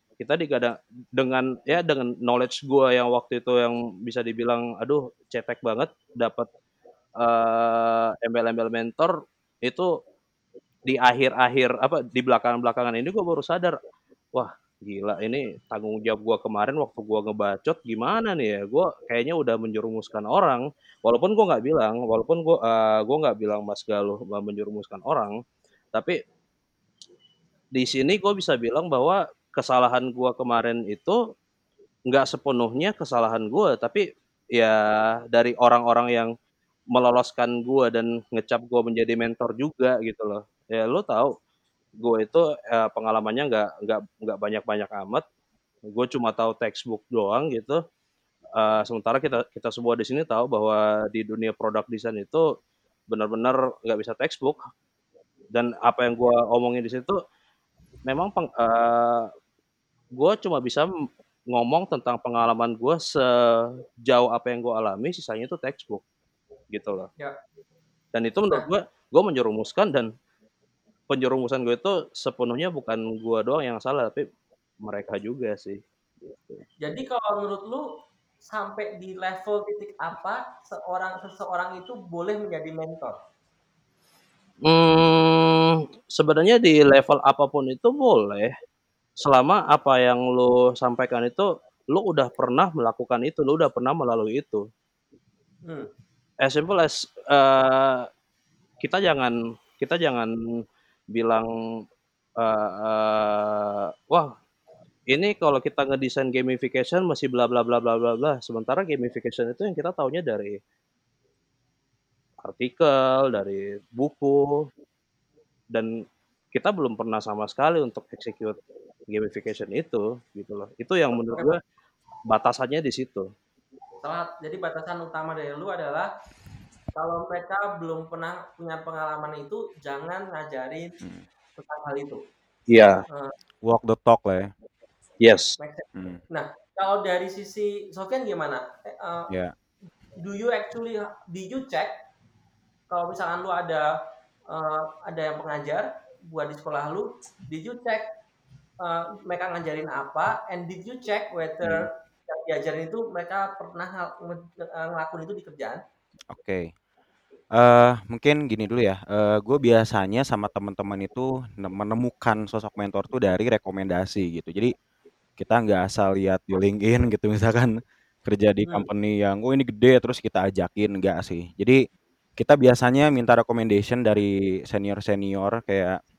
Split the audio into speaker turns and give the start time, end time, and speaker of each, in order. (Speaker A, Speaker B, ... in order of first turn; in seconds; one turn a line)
Speaker A: 0.2-6.5
Speaker A: 7.2-9.1
Speaker A: 9.7-9.9
Speaker A: 10.9-13.8
Speaker A: 14.3-25.3
Speaker A: 27.7-31.2
Speaker A: 32.1-36.3
Speaker A: 36.9-41.3
Speaker A: 42.0-45.2
Speaker A: 45.9-47.8
Speaker A: 48.5-52.5
Speaker A: 53.1-54.6
Speaker A: 55.5-57.2
Speaker A: 58.0-59.3
Speaker A: 60.2-60.9
Speaker A: 61.5-66.0
Speaker A: 66.7-67.1
Speaker A: 68.1-70.1
Speaker A: 71.1-74.3
Speaker A: 74.8-75.8
Speaker B: 76.8-77.9
Speaker B: 78.4-83.2
Speaker A: 84.6-88.5
Speaker A: 89.2-94.6
Speaker A: 96.4-98.1
Speaker A: 98.8-100.3
Speaker A: 101.1-101.5
Speaker A: 102.4-104.3
Speaker A: 105.1-110.6
Speaker A: 112.4-114.7
Speaker A: 116.5-118.6
Speaker A: 119.1-121.6
Speaker A: 122.3-123.3
Speaker B: 124.0-126.1
Speaker B: 126.9-130.9
Speaker B: 131.6-132.2
Speaker A: 132.7-133.0
Speaker C: 133.6-134.5
Speaker A: 135.2-135.5
Speaker B: 135.6-139.3
Speaker C: 135.9-136.2
Speaker B: 140.2-141.9
Speaker B: 142.9-143.8
Speaker B: 144.5-148.1
Speaker B: 148.8-155.8
Speaker C: 156.3-156.7
Speaker C: 157.5-164.7
Speaker C: 165.4-171.8
Speaker C: 172.4-176.0